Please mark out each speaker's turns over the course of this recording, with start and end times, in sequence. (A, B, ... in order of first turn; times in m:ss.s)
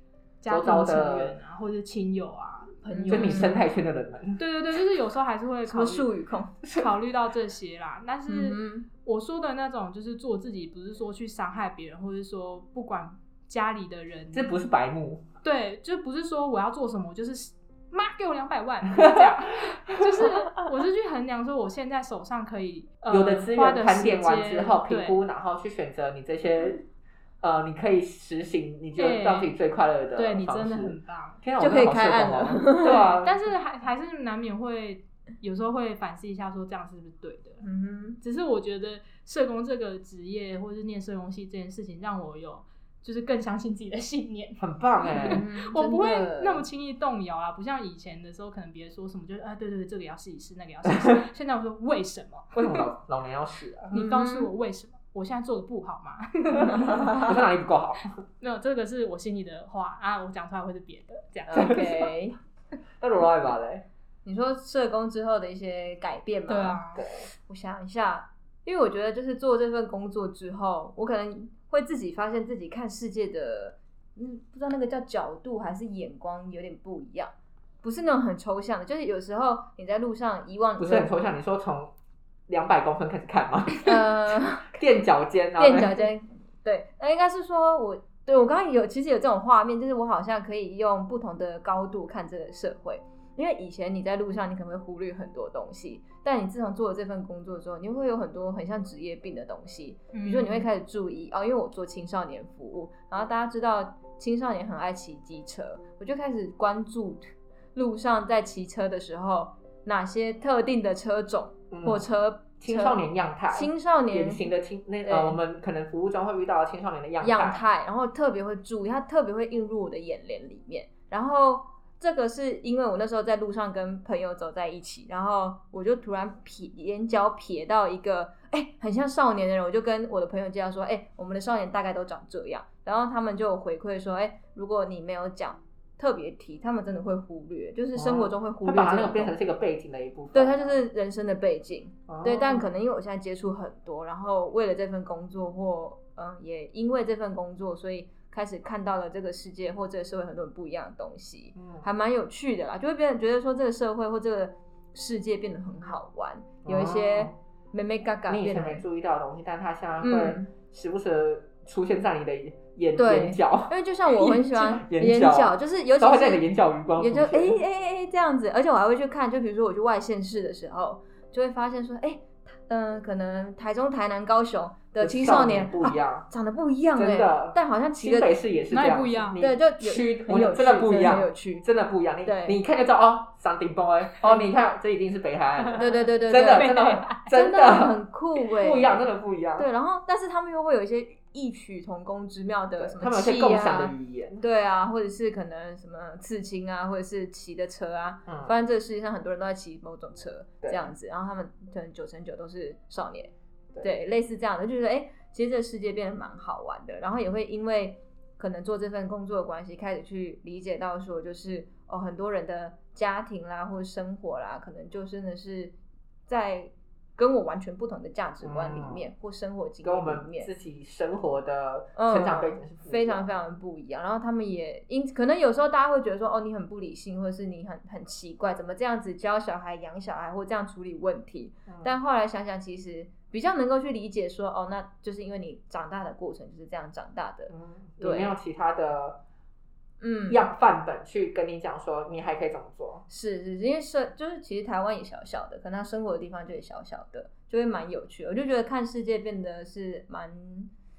0:00.4-0:03.6 A
0:00.5-0:01.4 B
0:02.9-0:03.6 C
0:03.1-0:04.4 B
0:04.4-0:06.1 A
0:05.7-0:06.5 C
0:06.8-0:14.5 A
0:08.3-0:08.9 C
0:14.3-0:15.2 B
0:15.4-0:25.2 A
0:19.9-0:20.3 B
0:23.1-0:26.8 B
0:27.4-0:33.4 B
0:29.0-0:29.6 A
0:30.2-0:31.4 A
0:31.6-0:33.1 C
0:32.8-0:37.6 A
0:37.6-0:38.2 C
0:38.2-0:52.8 A
0:44.6-0:45.4 B
0:45.3-0:46.7 C
0:52.5-0:54.0 B
0:53.9-0:57.2 A
0:53.9-0:54.5 C
0:56.6-0:58.1 B
0:58.4-1:01.9 A
1:01.5-1:02.4 C
1:01.5-1:02.0 B
1:03.0-1:03.9 B
1:04.2-1:21.1 C
1:06.5-1:07.0 A
1:07.0-1:07.3 B
1:20.8-1:21.9 B
1:22.5-1:24.0 B
1:23.8-1:24.7 C
1:24.6-1:26.0 B
1:25.6-1:53.0 C
1:40.1-1:40.7 A
1:51.7-1:52.1 B
1:52.6-1:57.6 B
1:53.5-1:54.4 C
1:55.1-1:55.4 C
1:57.2-2:19.4 C
2:18.0-2:20.8 B
2:20.3-2:38.8 C
2:22.1-2:22.7 B
2:31.6-2:31.9 B
2:36.6-2:37.4 B
2:38.3-2:47.6 B
2:40.0-2:40.5 C
2:43.0-2:46.4 C
2:47.0-2:58.3 C
2:55.0-2:56.3 B
2:57.0-3:09.7 B
2:58.7-2:59.4 A
2:59.4-3:01.6 C
3:02.2-3:02.6 C
3:05.6-3:07.3 A
3:05.8-3:06.8 C
3:07.3-3:35.8 C
3:12.8-3:14.4 B
3:18.3-3:18.5 B
3:36.3-3:40.5 C
3:38.4-3:39.0 B
3:39.8-3:43.4 B
3:42.0-3:58.4 C
3:51.7-3:52.0 B
3:57.5-3:59.2 B
4:00.0-4:00.4 C
4:00.3-4:03.0 B
4:03.1-4:10.7 C